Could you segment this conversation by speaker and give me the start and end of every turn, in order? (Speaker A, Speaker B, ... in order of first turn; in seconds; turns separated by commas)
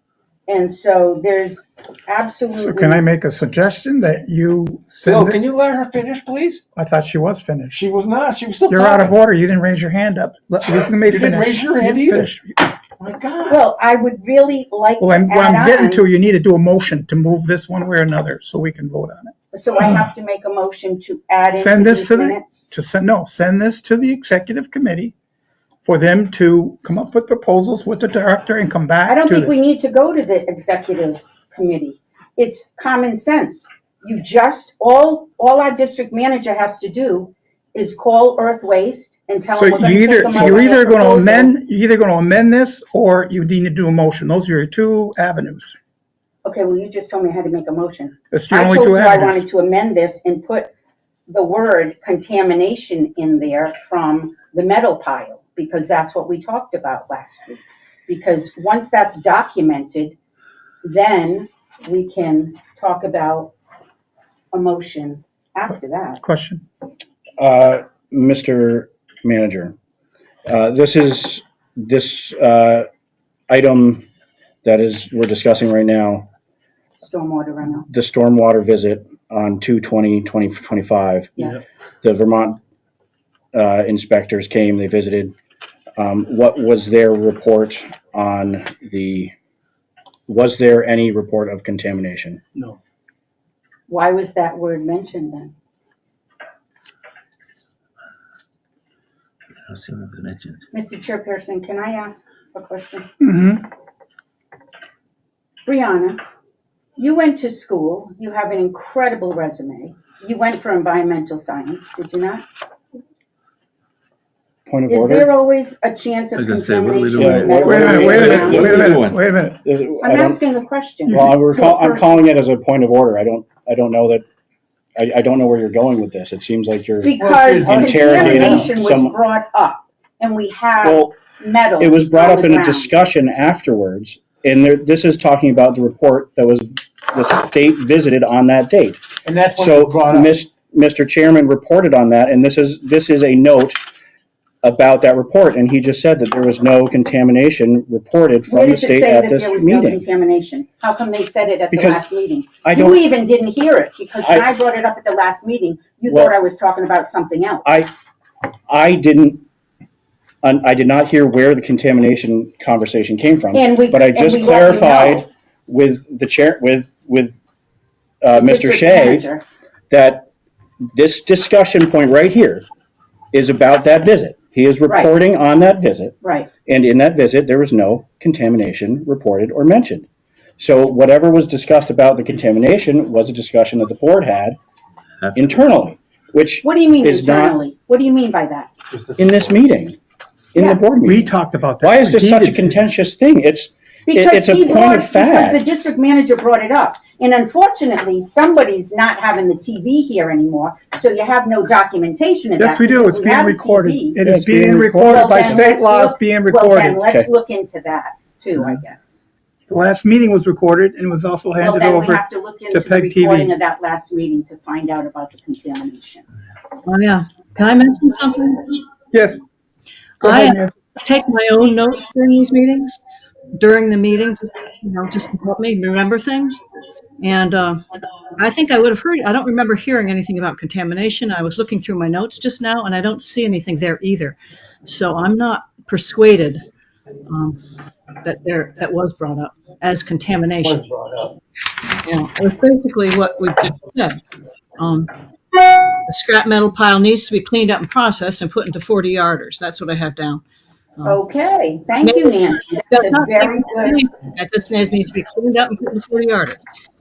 Speaker A: 0.5-3.0, Speaker B: 2.5-5.4, Speaker C: 5.0-6.6, Speaker B: 6.8-7.8, Speaker C: 7.7-9.1, Speaker B: 8.7-12.6, Speaker C: 11.0-12.3, Speaker C: 13.0-13.6, Speaker A: 13.5-16.0, Speaker B: 15.0-19.3, Speaker A: 19.5-22.7, Speaker B: 21.5-25.1, Speaker B: 25.8-29.6, Speaker A: 29.1-41.5, Speaker B: 39.5-45.8, Speaker A: 46.4-50.7, Speaker B: 48.3-49.5, Speaker A: 51.3-60.2, Speaker A: 60.8-63.5, Speaker A: 64.5-66.2, Speaker B: 66.2-66.6, Speaker D: 67.4-69.8, Speaker D: 70.5-72.9, Speaker D: 73.5-74.0, Speaker D: 74.6-76.3, Speaker A: 77.0-77.9, Speaker D: 77.9-82.6, Speaker D: 83.5-85.3, Speaker D: 86.0-89.3, Speaker D: 90.3-92.4, Speaker A: 93.9-95.5, Speaker E: 99.7-100.6, Speaker A: 100.7-103.1, Speaker B: 103.2-103.6, Speaker A: 105.7-106.2, Speaker A: 107.0-112.4, Speaker D: 114.7-115.3, Speaker A: 114.9-118.9, Speaker E: 116.4-117.5, Speaker D: 117.2-118.8, Speaker B: 117.6-119.6, Speaker C: 118.0-118.9, Speaker E: 118.2-119.2, Speaker D: 119.6-120.4, Speaker A: 120.0-122.2, Speaker B: 121.1-121.3, Speaker D: 121.1-124.2, Speaker D: 125.0-129.1, Speaker A: 127.0-133.0, Speaker E: 127.4-127.9, Speaker C: 128.0-128.5, Speaker D: 130.8-131.1, Speaker D: 131.8-143.8, Speaker C: 139.3-140.3, Speaker D: 144.6-150.0, Speaker A: 148.5-157.9, Speaker D: 151.7-152.0, Speaker D: 152.7-153.0, Speaker D: 158.7-159.4, Speaker D: 160.4-167.3, Speaker A: 163.5-165.3, Speaker D: 168.2-169.3, Speaker A: 168.3-169.4, Speaker D: 169.9-170.3, Speaker D: 170.9-172.6, Speaker D: 173.3-180.1, Speaker A: 174.9-175.1, Speaker A: 176.2-176.5, Speaker D: 180.6-184.6, Speaker D: 185.3-187.6, Speaker A: 186.6-188.7, Speaker C: 188.9-189.3, Speaker D: 189.2-190.0, Speaker D: 190.5-191.3, Speaker A: 190.6-190.8, Speaker B: 191.0-192.8, Speaker D: 191.8-195.6, Speaker A: 194.1-204.2, Speaker B: 202.6-207.0, Speaker D: 204.2-205.7, Speaker A: 205.1-209.2, Speaker B: 209.7-213.5, Speaker A: 211.6-216.2, Speaker F: 216.9-218.8, Speaker B: 219.1-219.4, Speaker F: 220.2-223.0, Speaker B: 220.2-220.7, Speaker F: 223.6-226.6, Speaker F: 227.2-227.8, Speaker F: 228.4-236.6, Speaker F: 237.3-237.6, Speaker F: 238.2-240.9, Speaker F: 242.0-244.2, Speaker F: 244.8-245.1, Speaker F: 246.0-250.4, Speaker A: 251.1-254.0, Speaker F: 252.1-256.6